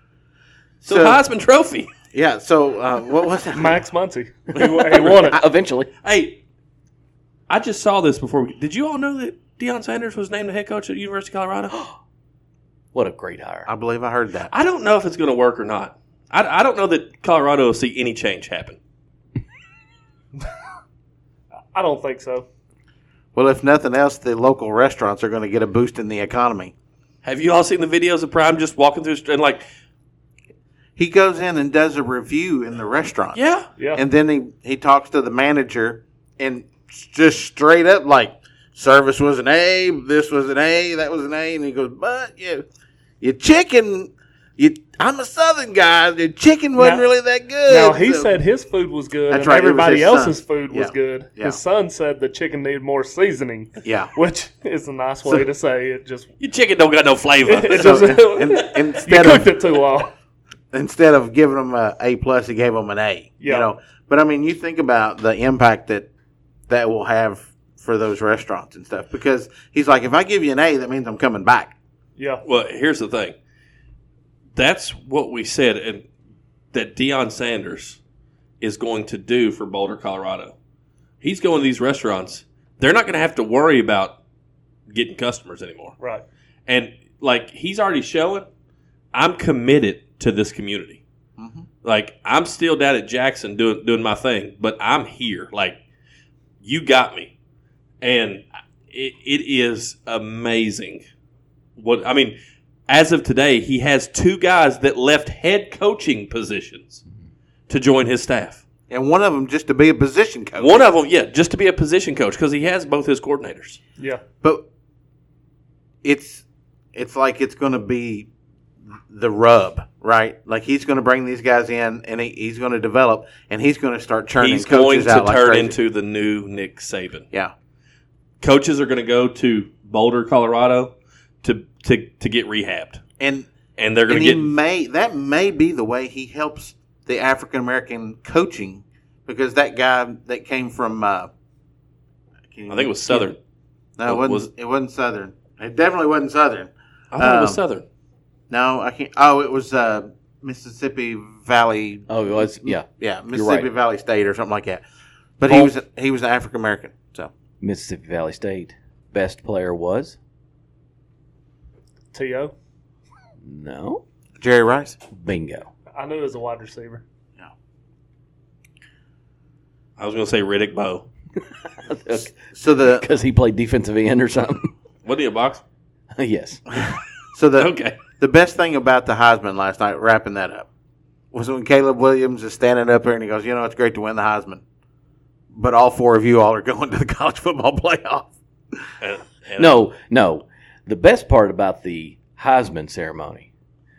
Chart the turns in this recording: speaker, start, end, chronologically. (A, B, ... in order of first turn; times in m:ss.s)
0:00.8-0:01.9 A
0:00.9-0:01.2 B
0:02.1-0:03.8 B
0:03.5-0:05.4 C
0:04.5-0:05.4 A
0:05.0-0:05.9 D
0:06.0-0:06.4 A
0:07.5-0:11.8 A
0:12.9-0:13.7 D
0:13.7-0:14.5 B
0:14.5-0:18.8 A
0:21.7-0:22.5 C
0:23.4-0:26.7 B
0:27.2-0:29.6 A
0:31.0-0:33.4 B
0:33.3-0:33.7 A
0:33.8-0:34.0 C
0:33.9-0:42.6 B
0:43.2-0:48.4 B
0:46.8-0:47.1 C
0:47.7-0:56.3 C
0:49.3-0:51.6 B
0:53.8-0:54.1 B
0:56.4-0:58.0 A
0:57.5-1:00.1 C
0:57.7-0:59.6 B
1:00.7-1:06.1 B
1:03.4-1:03.7 C
1:06.7-1:11.8 B
1:12.2-1:12.4 C
1:12.4-1:13.4 A
1:14.6-1:16.1 A
1:16.7-1:18.0 A
1:18.6-1:20.5 A
1:21.2-1:24.2 A
1:24.9-1:26.0 A
1:26.0-1:26.2 C
1:26.7-1:28.5 A
1:29.1-1:31.0 A
1:31.4-1:31.7 B
1:31.8-1:35.8 A
1:36.6-1:37.3 A
1:38.0-1:41.0 A
1:41.8-1:42.4 A
1:42.9-1:47.0 A
1:47.7-1:48.6 A
1:48.9-1:50.8 B
1:50.6-1:53.8 A
1:56.0-1:56.4 B
1:57.0-1:58.3 B
1:59.1-2:05.8 B
2:04.4-2:07.3 A
2:08.4-2:13.0 A
2:13.2-2:13.5 B
2:13.8-2:14.5 A
2:14.1-2:21.3 B
2:22.5-2:23.3 B
2:22.7-2:23.4 A
2:24.0-2:27.6 B
2:24.0-2:24.5 A
2:27.1-2:27.8 A
2:28.5-2:34.8 B
2:32.1-2:33.7 D
2:35.4-2:37.3 B
2:37.6-2:40.2 D
2:42.1-2:42.5 C
2:43.4-2:44.0 D
2:44.4-2:45.0 B
2:45.1-2:45.7 D
2:46.0-2:47.0 C
2:50.0-2:51.1 A
2:51.8-2:54.7 D
2:52.3-2:53.0 B
2:55.0-2:55.6 A
2:56.2-2:56.6 D
2:57.3-3:00.7 B
2:57.6-2:58.0 A
3:01.3-3:04.6 B
3:05.5-3:08.8 B
3:09.0-3:09.8 A
3:09.6-3:13.5 D